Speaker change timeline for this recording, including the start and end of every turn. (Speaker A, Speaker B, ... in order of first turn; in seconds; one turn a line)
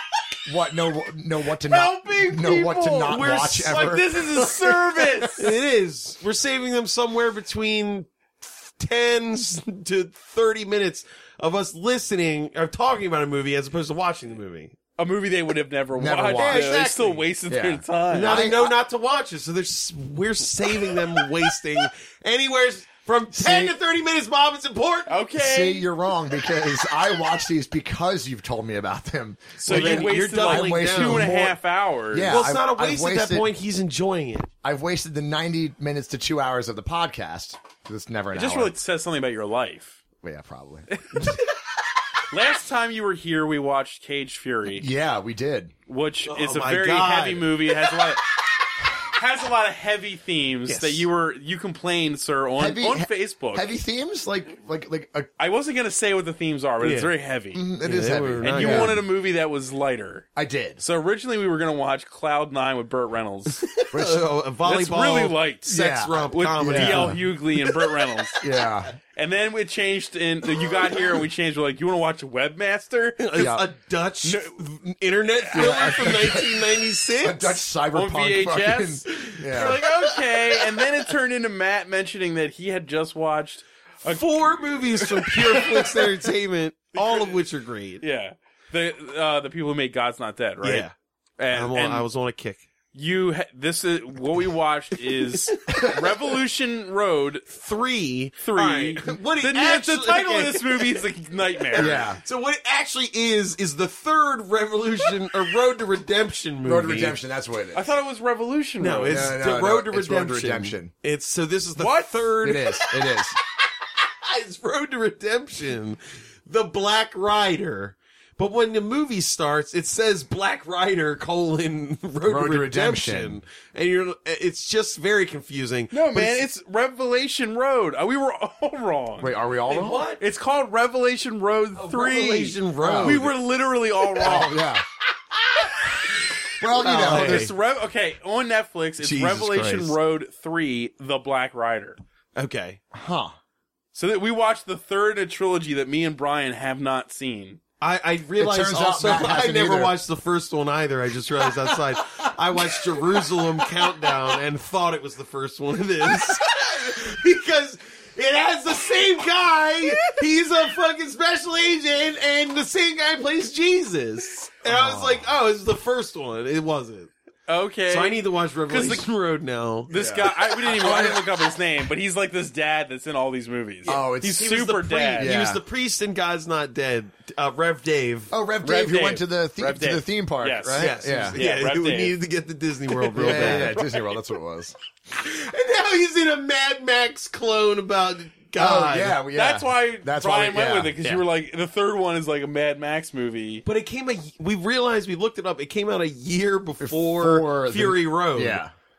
Speaker A: 0.5-5.3
Speaker B: 1.7-5.5
Speaker C: 2.9-4.0
Speaker C: 5.3-14.8
Speaker B: 15.0-18.5
Speaker A: 15.9-16.7
Speaker C: 16.4-17.2
Speaker A: 17.5-18.7
Speaker C: 18.1-25.2
Speaker B: 25.1-25.9
Speaker A: 25.4-31.6
Speaker C: 29.6-31.4
Speaker B: 29.6-32.5
Speaker A: 32.1-33.5
Speaker C: 32.3-34.5
Speaker A: 34.6-38.7
Speaker B: 38.3-40.0
Speaker A: 40.2-40.9
Speaker B: 41.0-41.4
Speaker B: 42.3-44.9
Speaker A: 44.7-45.7
Speaker B: 45.9-48.3
Speaker C: 46.3-47.9
Speaker B: 49.1-53.7
Speaker C: 50.7-51.1
Speaker A: 52.6-55.3
Speaker B: 55.4-57.6
Speaker C: 56.8-57.1
Speaker A: 57.5-59.0
Speaker C: 57.8-59.0
Speaker B: 58.4-60.3
Speaker A: 60.4-60.8
Speaker B: 60.8-63.8
Speaker C: 63.6-67.8
Speaker A: 63.9-64.2
Speaker B: 64.6-65.7
Speaker A: 65.7-67.2
Speaker B: 66.3-68.4
Speaker A: 68.4-69.0
Speaker B: 69.2-73.5
Speaker C: 73.2-77.6
Speaker A: 73.4-73.7
Speaker B: 74.2-74.6
Speaker B: 75.4-76.1
Speaker A: 75.5-79.8
Speaker B: 77.9-86.1
Speaker C: 79.3-81.0
Speaker C: 84.1-88.0
Speaker B: 87.0-87.4
Speaker B: 88.0-92.1
Speaker C: 90.6-90.9
Speaker C: 91.5-92.7
Speaker B: 92.9-97.5
Speaker C: 95.5-95.8
Speaker A: 95.7-96.0
Speaker C: 97.5-107.2
Speaker B: 98.4-102.0
Speaker A: 101.8-102.2
Speaker A: 106.7-107.9
Speaker B: 107.7-109.3
Speaker C: 108.8-112.9
Speaker A: 109.0-110.9
Speaker B: 111.8-112.5
Speaker A: 112.4-113.4
Speaker C: 114.1-126.4
Speaker A: 122.2-123.4
Speaker B: 125.9-129.3
Speaker A: 129.2-130.1
Speaker C: 129.7-130.2
Speaker B: 130.2-134.6
Speaker C: 131.8-133.3
Speaker A: 132.8-133.3
Speaker A: 134.2-134.8
Speaker C: 135.5-136.0
Speaker A: 136.6-137.5
Speaker C: 136.6-137.5
Speaker B: 136.8-142.0
Speaker C: 139.0-139.9
Speaker C: 142.4-142.8
Speaker A: 142.9-143.3
Speaker B: 143.9-147.6
Speaker C: 147.8-167.1
Speaker A: 148.4-149.9
Speaker A: 164.6-165.2
Speaker B: 167.5-169.1
Speaker C: 167.9-169.9
Speaker B: 169.9-175.3
Speaker A: 169.9-171.3
Speaker C: 173.8-178.3
Speaker A: 173.9-174.5
Speaker A: 175.2-175.6
Speaker A: 178.3-181.4
Speaker B: 178.6-182.2
Speaker C: 180.8-183.8
Speaker B: 182.9-184.2
Speaker A: 183.2-184.8
Speaker C: 185.1-189.2
Speaker A: 188.6-191.2
Speaker B: 189.3-193.7
Speaker C: 193.7-198.6
Speaker A: 196.8-198.7